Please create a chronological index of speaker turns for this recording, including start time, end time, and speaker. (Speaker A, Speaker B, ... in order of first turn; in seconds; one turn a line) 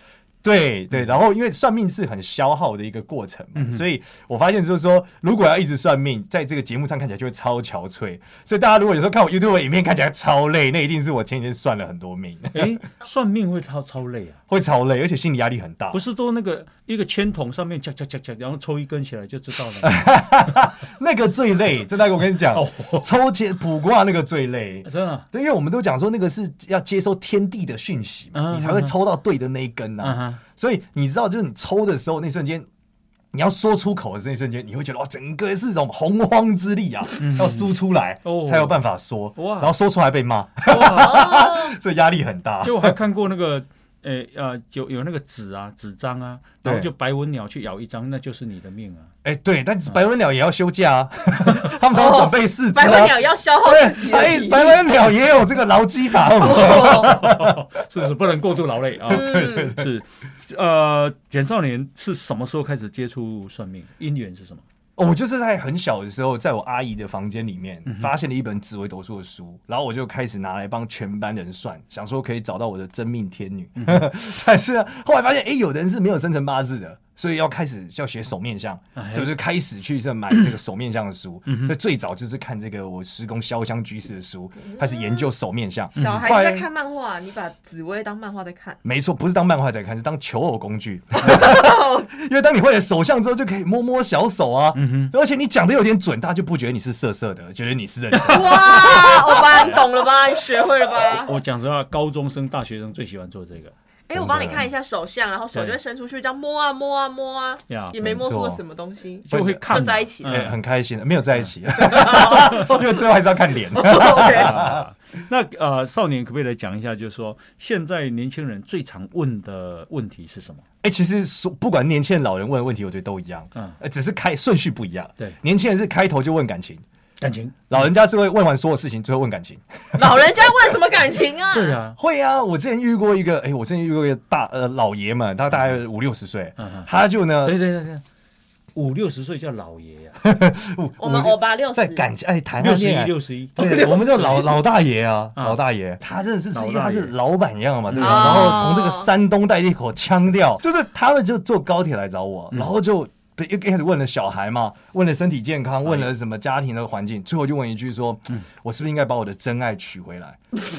Speaker A: 0.4-12.8
Speaker B: 3.6-3.8
Speaker B: 12.5-14.4
Speaker A: 14.5-16.0
Speaker B: 15.9-20.1
Speaker A: 19.8-32.7
Speaker B: 22.5-23.1
Speaker B: 24.9-25.2
Speaker B: 28.3-28.9
Speaker B: 30.0-30.4
Speaker A: 33.3-42.9
Speaker B: 37.2-38.8
Speaker B: 39.4-39.7
Speaker B: 40.7-41.4
Speaker C: 40.8-41.8
Speaker B: 42.6-49.1
Speaker A: 46.6-46.9
Speaker A: 49.2-57.6
Speaker C: 51.9-54.9
Speaker C: 56.2-57.1
Speaker B: 56.5-64.6
Speaker A: 59.1-59.9
Speaker C: 59.1-59.8
Speaker A: 65.0-86.7
Speaker B: 73.8-74.0
Speaker B: 79.0-79.3
Speaker B: 81.5-81.8
Speaker C: 84.6-85.3
Speaker B: 86.0-86.3
Speaker C: 86.0-88.8
Speaker A: 88.8-99.9
Speaker C: 91.2-92.1
Speaker B: 94.8-95.1
Speaker B: 98.1-99.8
Speaker C: 98.3-101.4
Speaker B: 101.2-103.7
Speaker C: 104.1-110.4
Speaker A: 104.1-104.7
Speaker B: 107.7-108.0
Speaker A: 108.0-108.6
Speaker B: 109.3-110.6
Speaker A: 109.3-114.8
Speaker C: 111.8-112.9
Speaker B: 112.3-112.7
Speaker C: 113.7-114.6
Speaker B: 114.1-120.6
Speaker A: 120.8-126.8
Speaker B: 127.2-127.9
Speaker A: 127.7-130.8
Speaker C: 129.9-131.8
Speaker B: 131.5-132.0
Speaker A: 132.0-137.6
Speaker B: 136.6-136.9
Speaker B: 137.4-138.0
Speaker B: 138.8-140.2
Speaker A: 140.2-160.4
Speaker C: 141.0-142.1
Speaker B: 142.6-144.4
Speaker C: 143.6-143.9
Speaker B: 146.5-147.1
Speaker B: 147.9-148.7
Speaker C: 148.0-149.1
Speaker B: 155.8-156.1